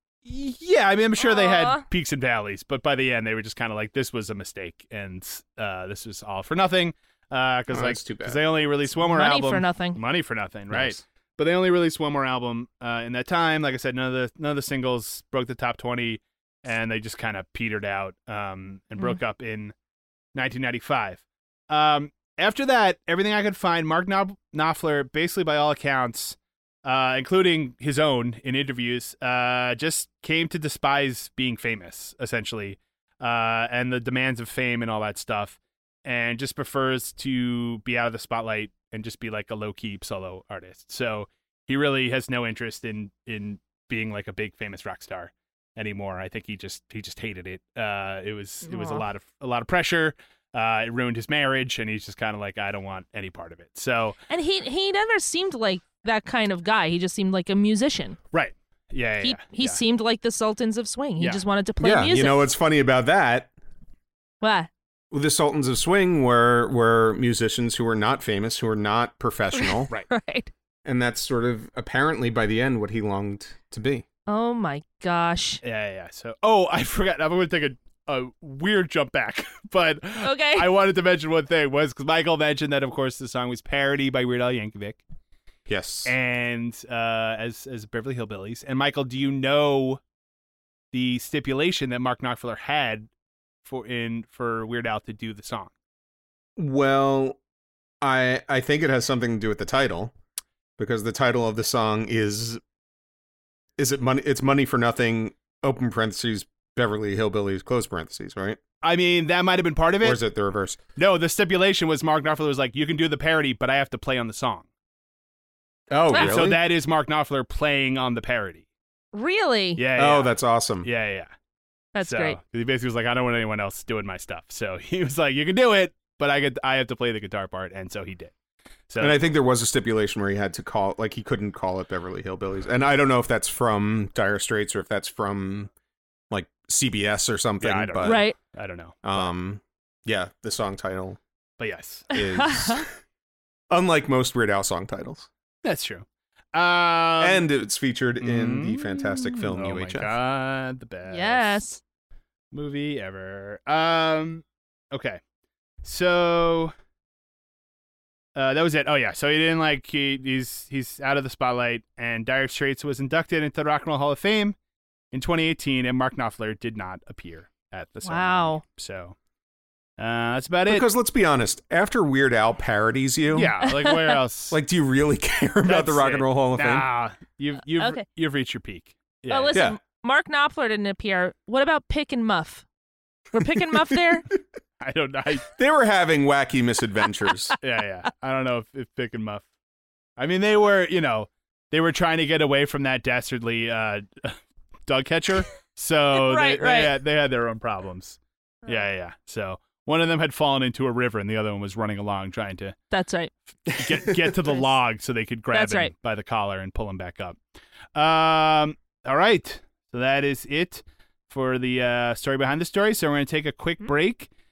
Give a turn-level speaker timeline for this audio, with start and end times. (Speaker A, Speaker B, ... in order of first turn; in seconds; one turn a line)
Speaker A: 0.2-19.7
Speaker B: 1.2-1.8
Speaker C: 7.7-8.4
Speaker B: 9.0-10.0
Speaker C: 10.7-11.0
Speaker A: 20.3-54.2
Speaker B: 48.6-49.0
Speaker B: 54.3-58.2
Speaker A: 58.3-59.8
Speaker B: 59.2-62.5
Speaker C: 61.8-63.5
Speaker B: 64.4-64.7
Speaker C: 65.1-69.9
Speaker B: 69.5-70.5
Speaker C: 70.8-74.0
Speaker B: 74.3-75.6
Speaker A: 75.6-85.0
Speaker B: 80.2-80.7
Speaker C: 85.7-86.1
Speaker A: 86.0-90.0
Speaker A: 90.9-93.1
Speaker A: 93.6-95.7
Speaker C: 96.6-97.4
Speaker C: 98.0-100.1
Speaker C: 100.8-102.6
Speaker C: 103.8-108.6
Speaker A: 108.8-110.2
Speaker C: 110.0-110.8
Speaker A: 111.0-114.7
Speaker C: 115.9-116.6
Speaker B: 116.1-116.4
Speaker A: 116.1-118.7
Speaker B: 119.1-119.8
Speaker A: 119.8-121.3
Speaker C: 119.9-120.9
Speaker B: 121.9-122.4
Speaker A: 122.0-128.3
Speaker A: 128.9-129.2
Speaker C: 129.0-135.7
Speaker C: 136.3-138.2
Speaker A: 137.6-139.3
Speaker B: 138.0-138.4
Speaker C: 139.0-141.2
Speaker A: 141.6-142.2
Speaker C: 142.1-142.9
Speaker B: 142.4-142.8
Speaker C: 143.7-145.3
Speaker A: 145.6-147.5
Speaker C: 147.2-150.1
Speaker A: 148.2-151.7
Speaker B: 151.1-151.8
Speaker A: 152.5-155.2
Speaker A: 155.8-156.7
Speaker A: 158.3-164.6
Speaker A: 165.1-169.2
Speaker B: 168.1-168.6
Speaker A: 170.0-170.9
Speaker C: 170.7-173.5
Speaker A: 173.3-174.6
Speaker B: 173.6-174.1
Speaker C: 174.5-176.9
Speaker A: 175.6-179.6
Speaker B: 179.3-182.6
Speaker B: 183.3-184.3
Speaker A: 184.8-185.5
Speaker C: 185.6-187.6
Speaker A: 187.6-189.4
Speaker A: 190.2-202.8
Speaker B: 196.1-196.9
Speaker B: 202.9-203.3
Speaker A: 203.7-207.4
Speaker B: 205.5-205.9
Speaker A: 207.9-214.3